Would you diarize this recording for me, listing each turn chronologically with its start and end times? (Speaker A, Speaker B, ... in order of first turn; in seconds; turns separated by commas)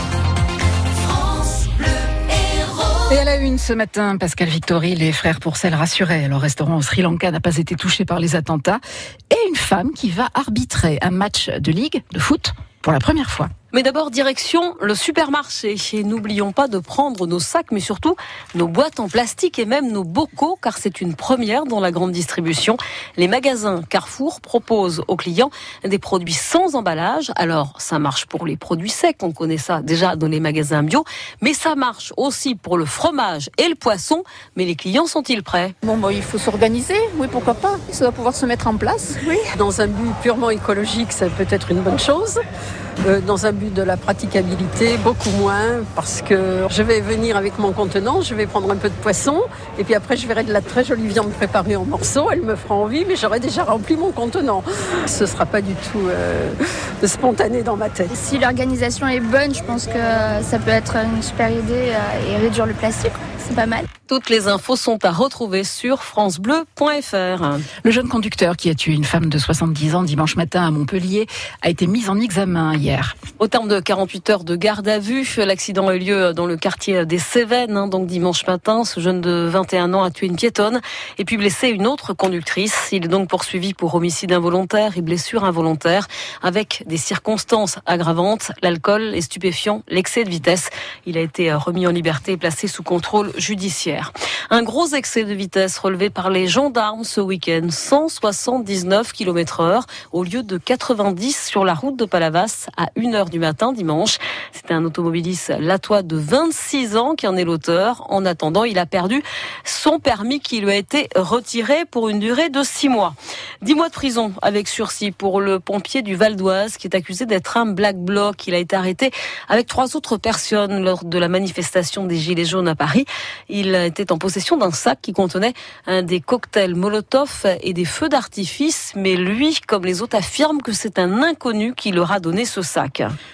Speaker A: 1.3-1.9, Speaker B: 3.1-8.8, Speaker B: 9.3-13.5, Speaker A: 13.7-35.7, Speaker C: 35.8-39.4, Speaker D: 39.5-42.4, Speaker D: 43.0-58.1, Speaker E: 58.1-63.9, Speaker A: 64.1-67.7, Speaker B: 67.8-73.1, Speaker A: 73.4-133.2